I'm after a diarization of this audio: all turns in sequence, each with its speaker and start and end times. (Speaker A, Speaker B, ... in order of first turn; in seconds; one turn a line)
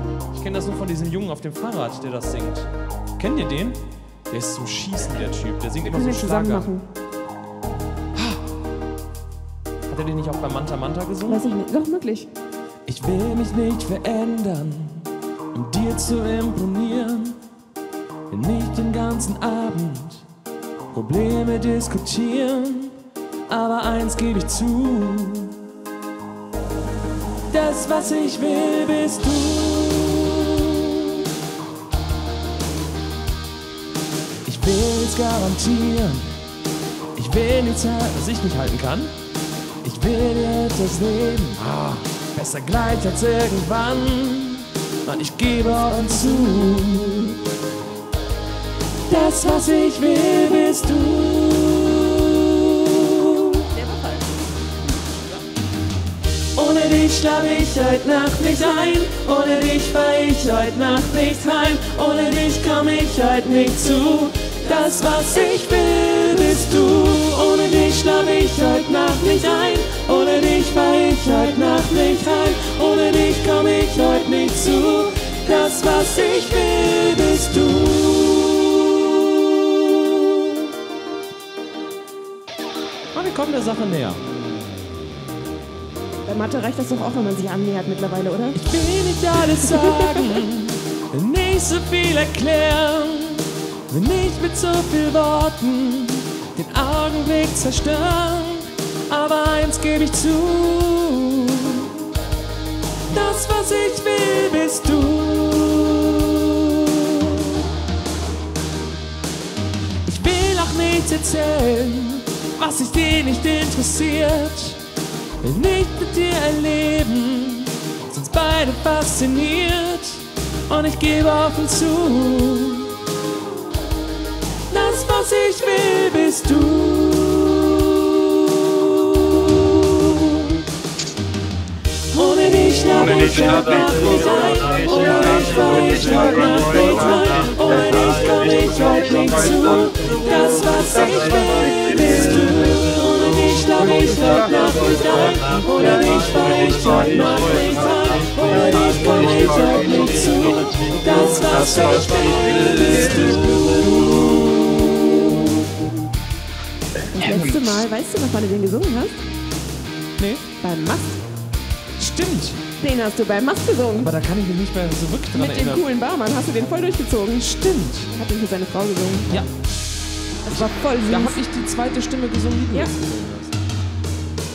Speaker A: 0.3-3.8
Speaker A: 4.3-6.7
Speaker B: 5.8-6.8
Speaker A: 9.9-11.4
Speaker B: 11.2-12.3
Speaker A: 12.8-17.4
Speaker A: 18.3-20.2
Speaker A: 20.9-23.0
Speaker A: 23.5-25.6
Speaker A: 27.5-31.3
Speaker A: 34.5-36.3
Speaker A: 37.1-39.1
Speaker A: 39.8-47.4
Speaker B: 46.0-46.6
Speaker A: 49.1-53.7
Speaker A: 56.5-80.6
Speaker A: 83.1-84.2
Speaker B: 86.2-88.6
Speaker A: 88.5-102.0
Speaker B: 89.5-90.4
Speaker A: 103.1-107.6
Speaker A: 110.0-114.8
Speaker A: 115.4-123.0
Speaker A: 124.7-130.6
Speaker A: 132.1-155.5
Speaker B: 157.1-159.2
Speaker A: 160.2-160.4
Speaker B: 160.6-161.2
Speaker A: 162.0-162.6
Speaker B: 162.8-164.1
Speaker A: 164.0-165.8
Speaker B: 165.3-167.5
Speaker A: 167.4-168.1
Speaker B: 168.1-169.4
Speaker B: 170.4-171.4
Speaker A: 170.5-173.5